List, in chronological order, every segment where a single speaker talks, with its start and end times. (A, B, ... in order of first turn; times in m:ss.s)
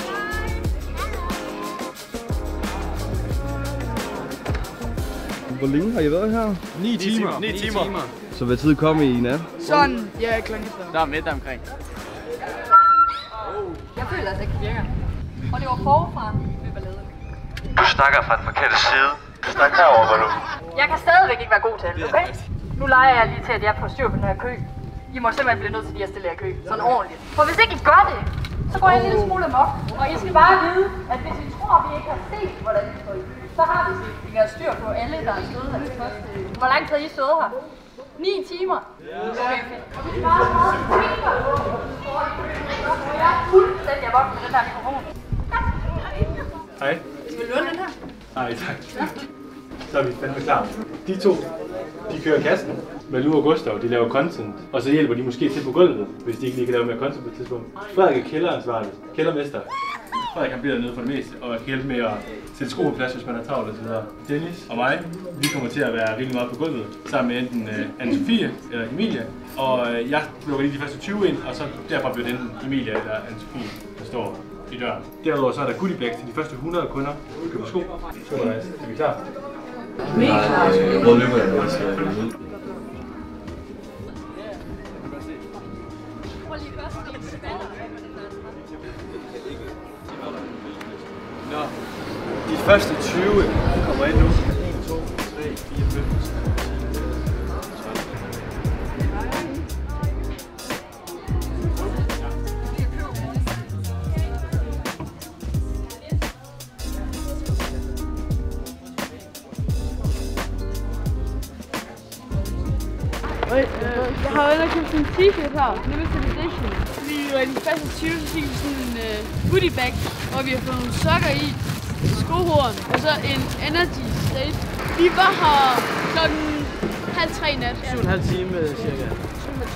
0:05.5-0:06.6 A
0:06.7-0:07.9 B
0:06.9-0:08.1 C
0:08.3-0:09.8 A
0:09.7-0:10.9 D
0:10.9-0:11.6 C
0:14.0-0:17.2 E
0:17.8-0:20.4 B
0:19.7-0:37.6 E
0:38.2-0:45.1 E
0:46.8-0:47.0 F
0:47.2-0:47.9 E
0:48.3-0:49.1 F
0:49.9-0:51.5 F
0:52.1-1:19.2 F
1:04.2-1:04.7 B
1:20.0-1:22.3 B
1:20.1-1:21.4 E
1:32.4-1:37.0 B
1:37.6-1:38.0 B
1:53.5-2:07.9 D
2:07.8-2:09.2 C